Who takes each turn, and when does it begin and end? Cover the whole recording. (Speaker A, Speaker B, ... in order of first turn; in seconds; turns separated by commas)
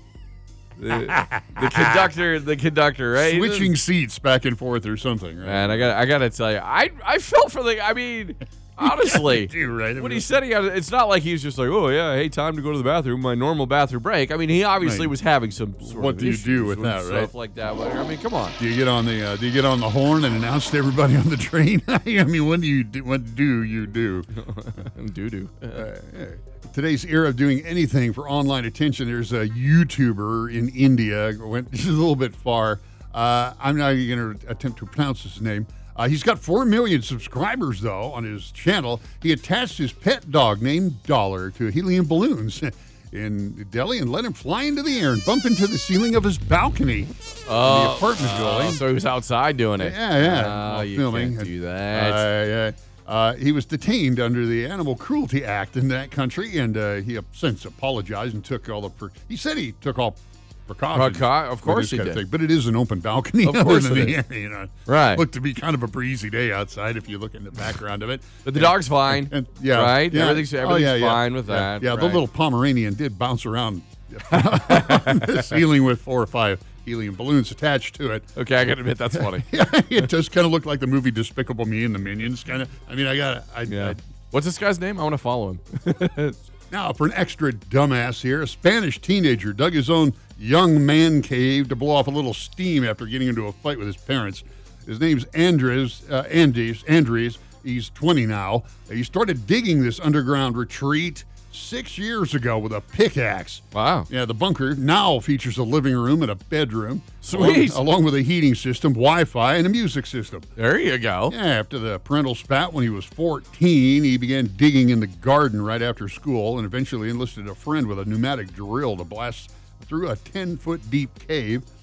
Speaker A: 0.8-3.7, Speaker B: 0.9-2.0, Speaker B: 3.1-5.9, Speaker A: 5.4-18.6, Speaker B: 8.8-10.3, Speaker B: 14.8-15.1, Speaker B: 15.8-17.3, Speaker B: 18.6-24.3, Speaker A: 24.4-25.8, Speaker B: 25.7-48.8, Speaker A: 47.5-52.3, Speaker B: 49.8-78.3, Speaker A: 60.9-62.2, Speaker A: 63.4-64.2, Speaker A: 64.9-65.2, Speaker A: 68.4-72.2, Speaker A: 74.3-75.6, Speaker A: 78.3-79.5, Speaker B: 79.1-84.0, Speaker A: 83.7-86.4, Speaker B: 86.7-110.5, Speaker A: 103.7-104.1, Speaker A: 107.2-107.8, Speaker A: 110.6-111.3, Speaker B: 111.3-121.6